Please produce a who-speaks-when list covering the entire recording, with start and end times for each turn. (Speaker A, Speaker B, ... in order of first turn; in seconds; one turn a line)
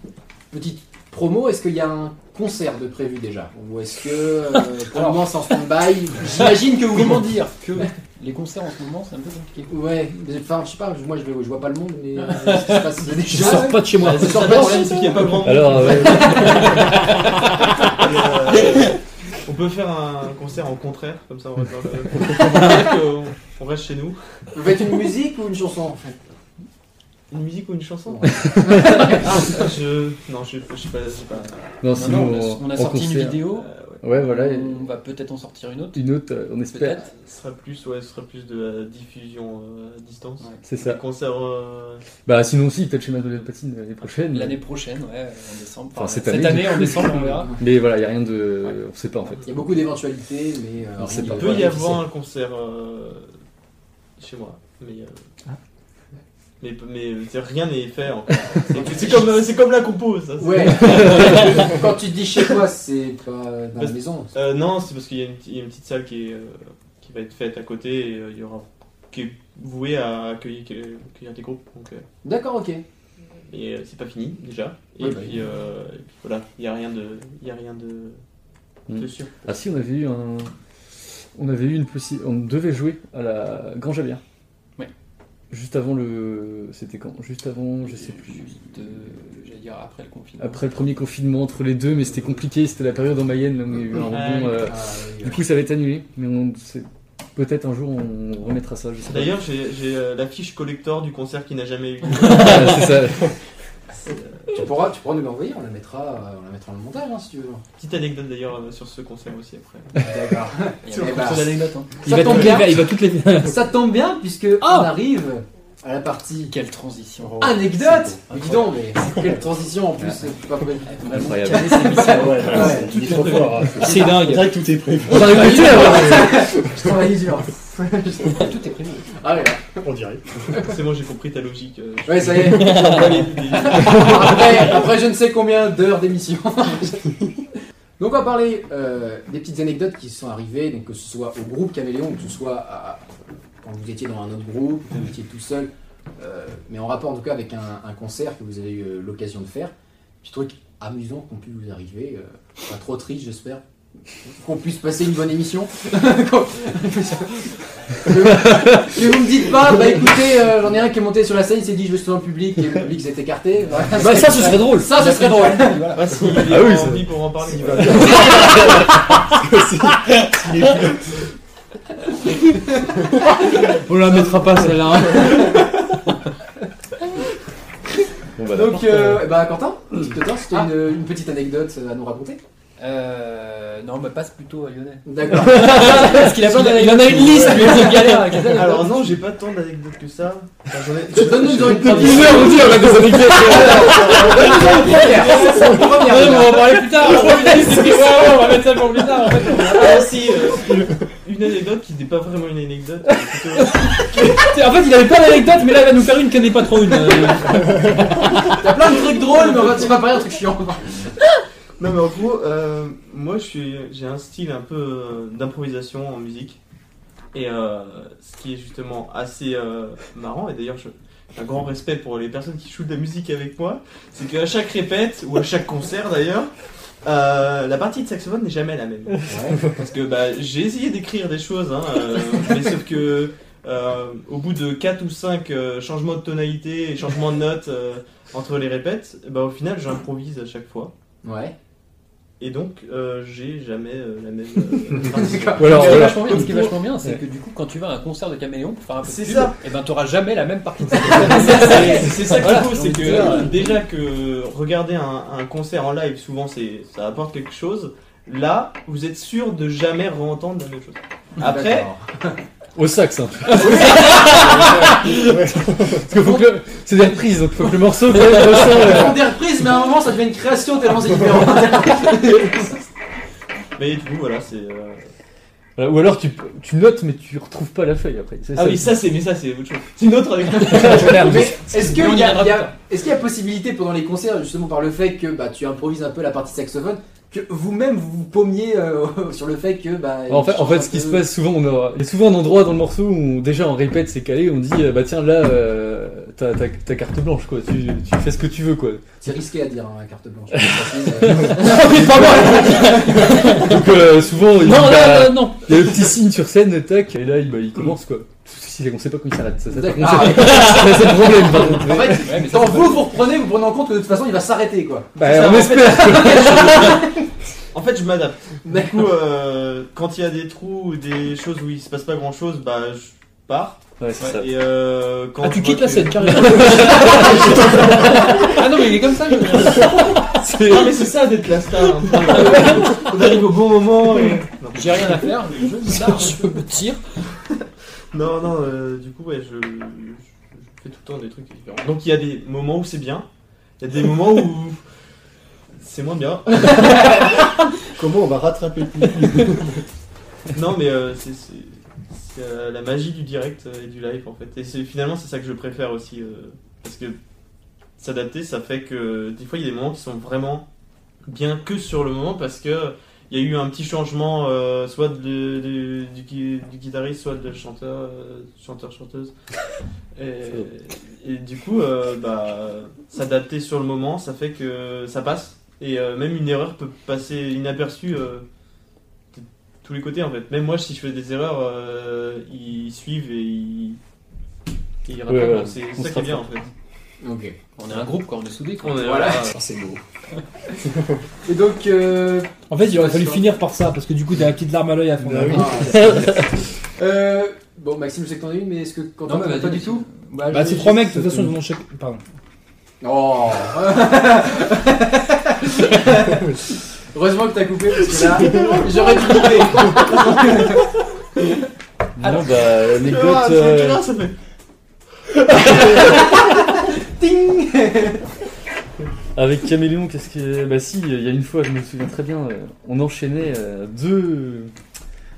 Speaker A: 0.5-7.3
Speaker B: 4.9-5.3
Speaker B: 6.2-9.8
Speaker A: 9.7-16.9
Speaker B: 12.2-13.8
Speaker C: 13.2-14.4
Speaker D: 13.9-16.8
Speaker E: 15.4-18.1
Speaker D: 17.9-24.2
Speaker A: 24.5-26.1
Speaker D: 27.3-31.8
Speaker A: 28.1-29.5
Speaker E: 28.3-29.2
Speaker E: 31.8-33.5
Speaker B: 31.9-36.0
Speaker D: 33.5-34.0
Speaker E: 34.0-34.9
Speaker E: 35.9-37.1
Speaker B: 36.7-37.1
Speaker D: 37.2-42.0
Speaker E: 40.6-41.0
Speaker E: 42.2-44.6
Speaker B: 44.3-47.5
Speaker E: 45.9-49.8
Speaker A: 49.4-52.0
Speaker E: 51.0-51.8
Speaker D: 51.1-53.3
Speaker D: 54.2-55.1
Speaker D: 56.6-61.8
Speaker A: 58.7-59.4
Speaker A: 60.4-64.3
Speaker E: 60.9-61.2
Speaker D: 63.8-72.0
Speaker A: 72.2-72.8
Speaker D: 73.5-78.2
Speaker A: 75.0-75.3
Speaker E: 78.9-80.5
Speaker D: 78.9-79.4
Speaker E: 81.3-84.2
Speaker E: 85.5-88.8
Speaker B: 87.9-90.7
Speaker E: 90.4-99.4
Speaker D: 93.9-94.7
Speaker A: 94.6-95.5
Speaker D: 99.0-103.2
Speaker E: 102.1-103.3
Speaker D: 104.0-104.5
Speaker A: 104.5-107.6
Speaker D: 107.8-109.9
Speaker A: 110.0-112.8
Speaker B: 110.0-112.1
Speaker C: 112.0-113.6
Speaker A: 113.4-116.5
Speaker C: 114.6-114.9
Speaker B: 116.5-119.3
Speaker F: 117.2-118.2
Speaker A: 117.4-124.3
Speaker B: 120.9-123.8
Speaker E: 121.1-122.0
Speaker F: 122.0-126.7
Speaker C: 123.8-124.6
Speaker E: 125.0-126.3
Speaker A: 125.0-128.5
Speaker B: 128.3-129.1
Speaker A: 129.2-129.8
Speaker F: 129.8-130.7
Speaker D: 130.6-134.7
Speaker A: 132.1-137.1
Speaker A: 138.0-153.6
Speaker A: 154.2-166.0
Speaker E: 158.3-158.9
Speaker B: 163.9-166.5
Speaker C: 164.0-165.0
Speaker D: 166.0-168.6
Speaker E: 166.4-169.0
Speaker F: 167.5-171.2
Speaker C: 173.4-175.7
Speaker E: 178.3-179.3
Speaker A: 178.5-182.4
Speaker B: 182.8-189.0
Speaker A: 185.0-186.2
Speaker C: 185.3-188.6
Speaker A: 187.3-188.8
Speaker D: 188.5-192.8
Speaker A: 191.1-197.8
Speaker E: 191.4-194.2
Speaker D: 193.8-195.6
Speaker C: 193.9-200.0
Speaker B: 197.0-200.1
Speaker D: 199.5-204.5
Speaker C: 203.6-208.5
Speaker A: 208.6-211.1
Speaker D: 209.5-209.9
Speaker D: 211.8-216.6
Speaker D: 217.3-226.5
Speaker D: 227.0-240.9
Speaker A: 229.3-229.6
Speaker A: 241.2-241.5
Speaker D: 242.4-246.5
Speaker A: 245.0-246.2
Speaker E: 245.5-247.2
Speaker B: 245.6-253.8
Speaker D: 249.0-249.5
Speaker D: 251.1-261.9
Speaker A: 261.4-262.4
Speaker E: 262.8-269.2
Speaker A: 263.5-264.9
Speaker B: 263.6-264.6
Speaker F: 264.3-266.0
Speaker A: 266.2-266.4
Speaker A: 268.1-272.9
Speaker D: 273.8-275.0
Speaker E: 275.8-279.0
Speaker D: 278.6-281.5
Speaker E: 280.6-281.3
Speaker A: 280.7-291.3
Speaker C: 280.9-281.3
Speaker B: 281.3-282.7
Speaker E: 290.3-299.0
Speaker A: 299.2-303.7
Speaker E: 300.6-312.3
Speaker C: 302.7-303.7
Speaker C: 304.6-305.8
Speaker A: 309.7-317.3
Speaker B: 312.0-313.1
Speaker E: 315.2-317.1
Speaker D: 315.2-316.6
Speaker D: 317.7-328.0
Speaker A: 318.6-319.1
Speaker E: 324.0-324.5
Speaker C: 325.4-328.6
Speaker E: 326.3-328.6
Speaker B: 328.3-329.9
Speaker E: 330.0-330.9
Speaker D: 330.6-335.4
Speaker E: 332.3-332.6
Speaker B: 334.7-337.0
Speaker D: 338.1-343.2
Speaker D: 343.8-344.8
Speaker D: 345.8-347.4
Speaker F: 347.9-349.8
Speaker D: 350.5-357.2
Speaker D: 358.0-360.6
Speaker D: 361.3-369.3
Speaker D: 370.1-378.4
Speaker D: 379.3-384.0
Speaker D: 385.1-386.7
Speaker E: 385.2-386.5
Speaker A: 387.2-387.6
Speaker B: 387.8-389.3
Speaker D: 388.8-389.5
Speaker A: 389.0-390.0
Speaker A: 391.4-393.5
Speaker C: 392.7-396.1
Speaker F: 395.3-395.7
Speaker A: 395.4-396.4
Speaker E: 395.9-396.4
Speaker A: 397.0-400.1
Speaker B: 399.2-401.2
Speaker C: 400.5-402.2
Speaker A: 403.0-410.9
Speaker D: 408.3-409.9
Speaker F: 408.4-408.9
Speaker E: 412.2-414.0
Speaker B: 412.2-412.5
Speaker D: 412.8-414.4
Speaker A: 415.5-418.3
Speaker E: 419.3-424.7